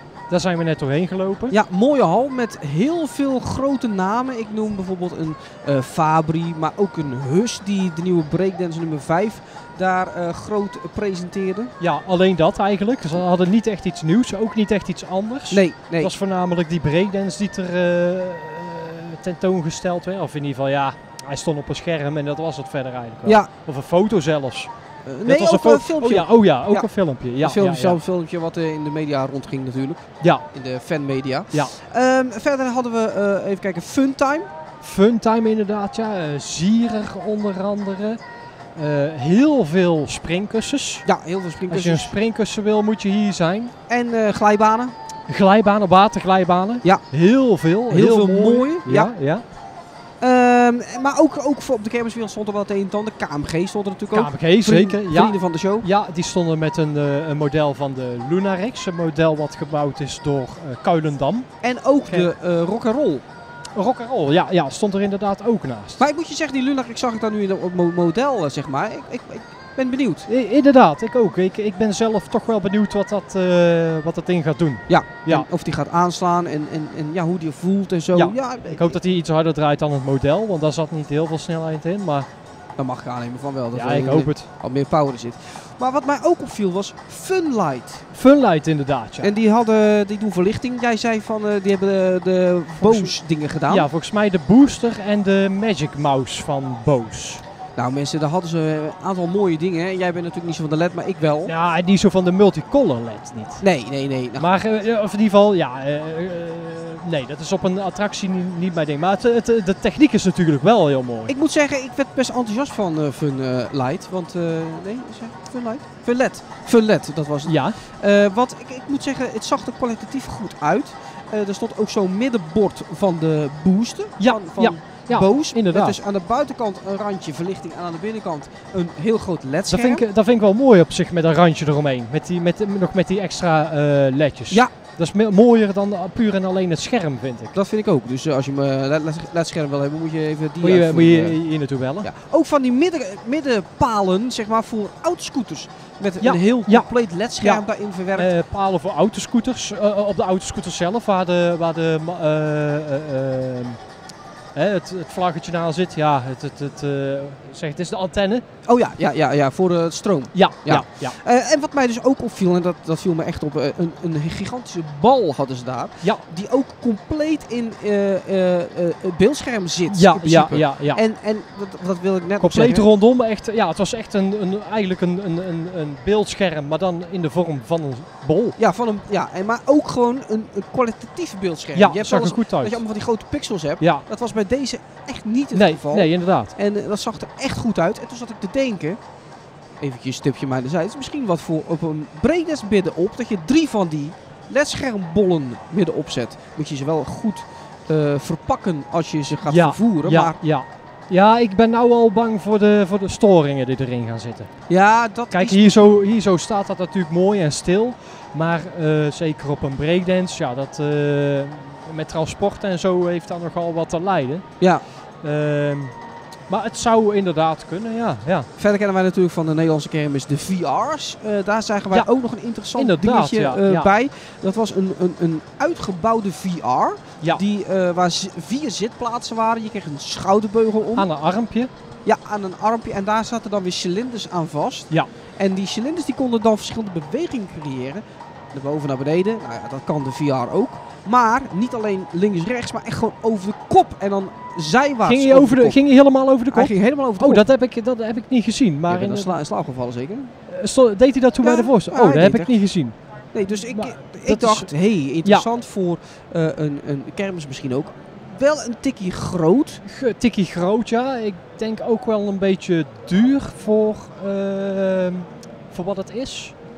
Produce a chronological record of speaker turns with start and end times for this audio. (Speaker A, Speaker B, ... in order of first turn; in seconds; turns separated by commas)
Speaker A: 0.3-1.6, Speaker B: 1.5-11.7, Speaker A: 11.8-24.7, Speaker B: 15.5-16.1, Speaker B: 25.1-26.9, Speaker A: 25.2-28.0, Speaker B: 27.4-34.5, Speaker A: 34.8-38.2, Speaker A: 38.8-41.1, Speaker B: 41.0-42.1, Speaker A: 41.7-43.7, Speaker B: 43.9-44.9, Speaker A: 45.3-49.4, Speaker B: 47.9-49.1, Speaker B: 50.2-55.9, Speaker A: 54.1-61.5, Speaker B: 61.6-63.2, Speaker A: 63.7-66.0, Speaker B: 66.0-70.3, Speaker A: 70.3-75.5, Speaker B: 74.9-79.0, Speaker A: 78.1-82.3, Speaker B: 82.8-88.0, Speaker A: 83.7-84.5, Speaker A: 88.1-89.3, Speaker B: 89.2-93.9, Speaker A: 92.8-93.1, Speaker A: 93.7-97.4, Speaker B: 97.8-101.5, Speaker A: 101.5-103.6, Speaker B: 103.6-104.4, Speaker A: 104.4-111.3, Speaker B: 111.3-130.0, Speaker A: 117.5-117.8, Speaker A: 124.2-126.0, Speaker A: 129.7-137.5, Speaker B: 137.5-141.4, Speaker A: 140.6-142.1, Speaker B: 142.0-148.3, Speaker A: 146.2-153.8, Speaker A: 154.5-158.4, Speaker B: 158.7-172.8, Speaker A: 160.3-161.2, Speaker A: 169.9-171.0, Speaker A: 172.4-178.6, Speaker B: 178.6-189.0, Speaker A: 181.7-182.8, Speaker A: 183.8-184.1, Speaker A: 185.5-186.5, Speaker B: 189.8-200.4, Speaker A: 199.5-204.5, Speaker B: 204.7-205.9, Speaker A: 205.3-214.6, Speaker A: 215.2-215.9, Speaker A: 216.5-218.5, Speaker B: 218.6-231.1, Speaker A: 222.7-223.9, Speaker A: 230.9-231.7, Speaker B: 232.0-245.8, Speaker A: 245.0-249.3, Speaker B: 246.5-247.4, Speaker B: 248.9-250.3, Speaker A: 250.5-252.9, Speaker B: 251.4-252.5, Speaker B: 253.3-259.8, Speaker A: 253.5-254.7, Speaker A: 259.8-266.5